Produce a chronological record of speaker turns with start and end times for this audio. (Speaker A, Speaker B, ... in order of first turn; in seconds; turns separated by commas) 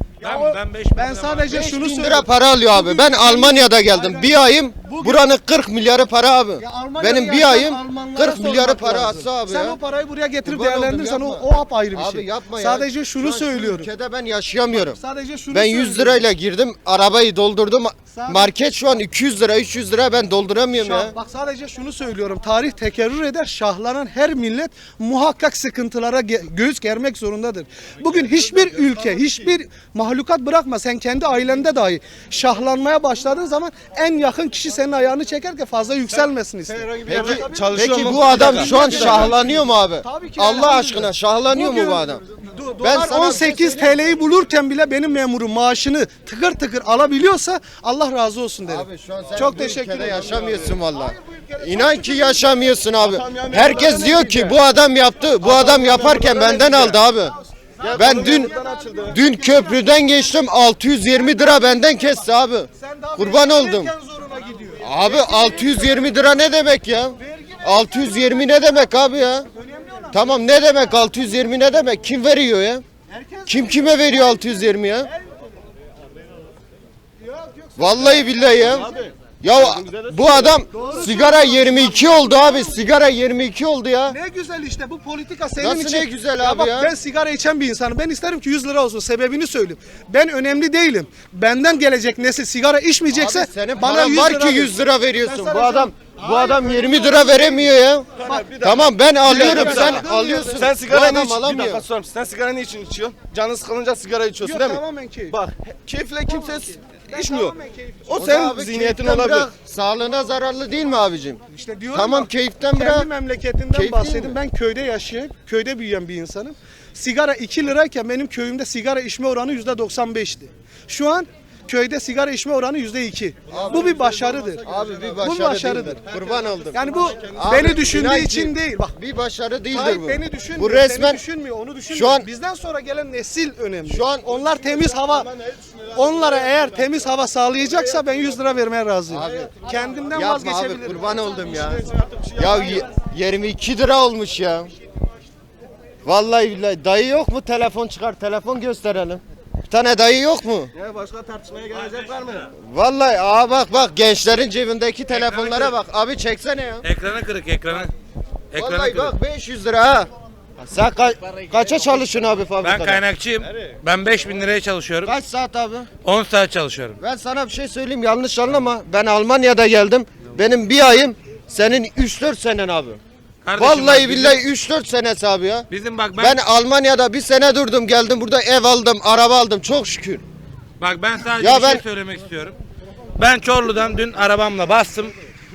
Speaker A: 0.2-1.7, Speaker B: 0.3-5.3, Speaker C: 1.5-9.8, Speaker B: 6.6-13.9, Speaker C: 10.4-15.0, Speaker B: 14.7-16.3, Speaker C: 15.5-21.1, Speaker B: 18.1-18.5, Speaker B: 20.8-37.5, Speaker D: 28.0-29.6, Speaker D: 36.1-39.4, Speaker C: 37.1-42.2, Speaker B: 38.2-52.7, Speaker C: 42.8-44.0, Speaker C: 48.6-57.4, Speaker D: 50.1-50.7, Speaker D: 53.0-54.6, Speaker D: 55.4-57.0, Speaker B: 57.3-60.3, Speaker D: 57.8-59.2, Speaker C: 57.9-58.5, Speaker C: 59.0-63.9, Speaker B: 61.1-62.2, Speaker B: 62.8-66.2, Speaker C: 64.8-69.5, Speaker B: 67.2-68.7, Speaker B: 69.5-70.6, Speaker C: 70.1-72.8, Speaker B: 73.1-75.3, Speaker C: 73.5-75.1, Speaker B: 77.2-78.9, Speaker C: 77.8-78.9, Speaker D: 78.0-80.6, Speaker C: 79.4-84.2, Speaker B: 80.7-82.8, Speaker B: 84.1-97.7, Speaker C: 85.6-86.9, Speaker C: 93.1-98.1, Speaker D: 98.2-107.6, Speaker B: 98.2-98.5, Speaker C: 98.6-101.8, Speaker B: 99.2-100.7, Speaker B: 104.4-105.4, Speaker B: 106.3-108.3, Speaker D: 108.1-109.5, Speaker C: 108.2-111.4, Speaker B: 111.5-124.7, Speaker C: 111.9-113.1, Speaker C: 113.7-114.4, Speaker D: 123.5-125.4, Speaker C: 123.5-123.9, Speaker C: 124.6-131.2, Speaker B: 125.2-126.0, Speaker D: 125.9-128.0, Speaker B: 126.7-128.9, Speaker B: 129.7-135.3, Speaker C: 131.9-132.3, Speaker C: 133.8-134.3, Speaker D: 134.2-138.5, Speaker B: 135.9-141.3, Speaker C: 139.1-139.5, Speaker D: 139.2-140.3, Speaker C: 140.1-141.8, Speaker D: 141.1-142.9, Speaker C: 142.4-144.7, Speaker C: 146.1-150.7, Speaker D: 150.7-152.5, Speaker C: 152.5-156.9, Speaker A: 155.2-155.6, Speaker A: 156.8-157.9, Speaker A: 158.5-159.2, Speaker C: 158.6-160.1, Speaker C: 160.6-163.0, Speaker A: 162.6-165.1, Speaker D: 163.4-164.4, Speaker C: 165.0-165.9, Speaker A: 166.0-167.0, Speaker C: 167.0-173.0, Speaker A: 173.4-174.4, Speaker C: 173.6-180.2, Speaker A: 175.7-176.4, Speaker A: 180.8-182.6, Speaker C: 181.4-181.8, Speaker A: 183.2-185.2